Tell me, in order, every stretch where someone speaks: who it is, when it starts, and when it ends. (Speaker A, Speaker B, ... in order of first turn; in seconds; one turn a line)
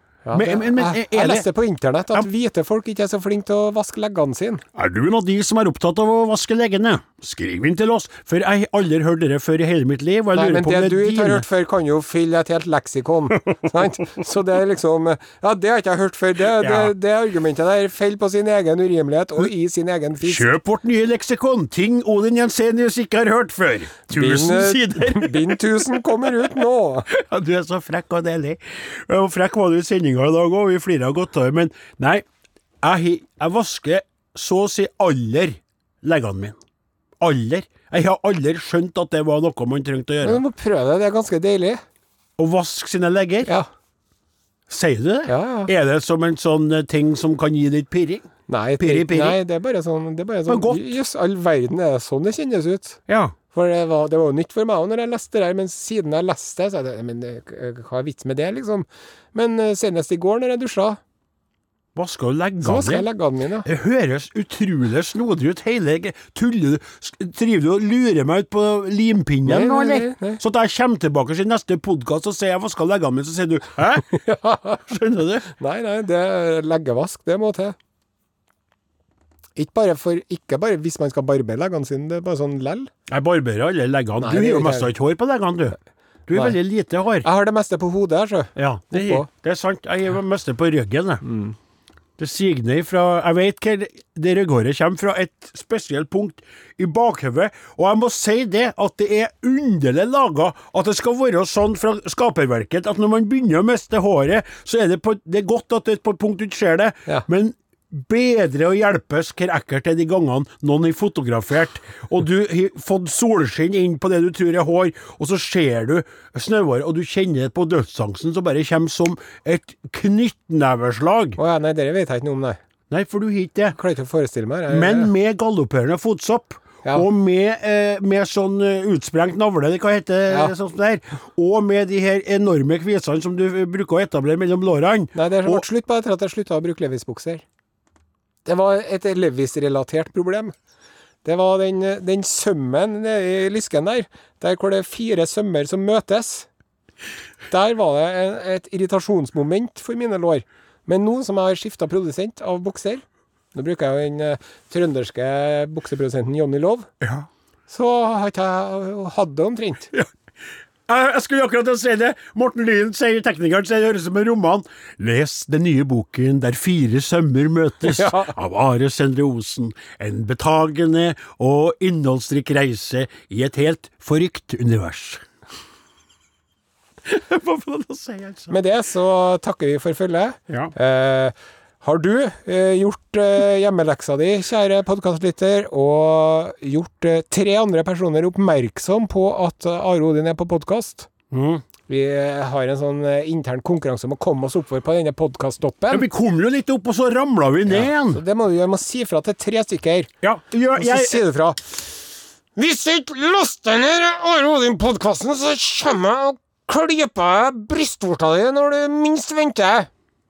Speaker A: 0.2-4.6
Speaker B: 0.3-1.5
Speaker B: 4.8-11.5
Speaker A: 10.3-20.5
Speaker B: 16.6-16.9
Speaker B: 20.2-25.6
Speaker A: 24.1-27.1
Speaker B: 27.1-32.2
Speaker B: 32.8-36.6
Speaker B: 37.2-40.4
Speaker A: 40.2-41.8
Speaker B: 42.4-43.5
Speaker B: 44.7-49.4
Speaker A: 45.3-45.7
Speaker A: 48.5-53.0
Speaker B: 50.5-51.0
Speaker B: 53.1-53.4
Speaker A: 53.5-61.0
Speaker B: 62.0-63.1
Speaker A: 62.6-63.7
Speaker B: 63.6-74.2
Speaker A: 69.5-70.4
Speaker A: 74.1-74.8
Speaker B: 74.9-75.5
Speaker A: 75.6-77.8
Speaker A: 79.6-82.9
Speaker B: 83.1-85.8
Speaker A: 84.2-84.9
Speaker B: 86.3-87.3
Speaker A: 87.2-89.3
Speaker B: 88.6-91.2
Speaker A: 91.2-91.5
Speaker B: 92.2-121.4
Speaker A: 121.4-122.6
Speaker B: 122.9-123.8
Speaker A: 123.8-125.1
Speaker B: 124.7-135.6
Speaker A: 130.3-130.5
Speaker A: 135.2-137.4
Speaker A: 138.4-140.5
Speaker A: 141.2-146.5
Speaker A: 147.5-156.9
Speaker B: 157.0-157.3
Speaker A: 157.7-159.9
Speaker B: 160.9-175.2
Speaker A: 167.8-168.3
Speaker B: 177.1-178.6
Speaker A: 178.5-191.1
Speaker B: 191.3-191.6
Speaker A: 191.9-196.1
Speaker B: 195.9-198.2
Speaker A: 197.7-200.1
Speaker B: 200.2-201.2
Speaker A: 200.8-201.9
Speaker A: 202.6-209.9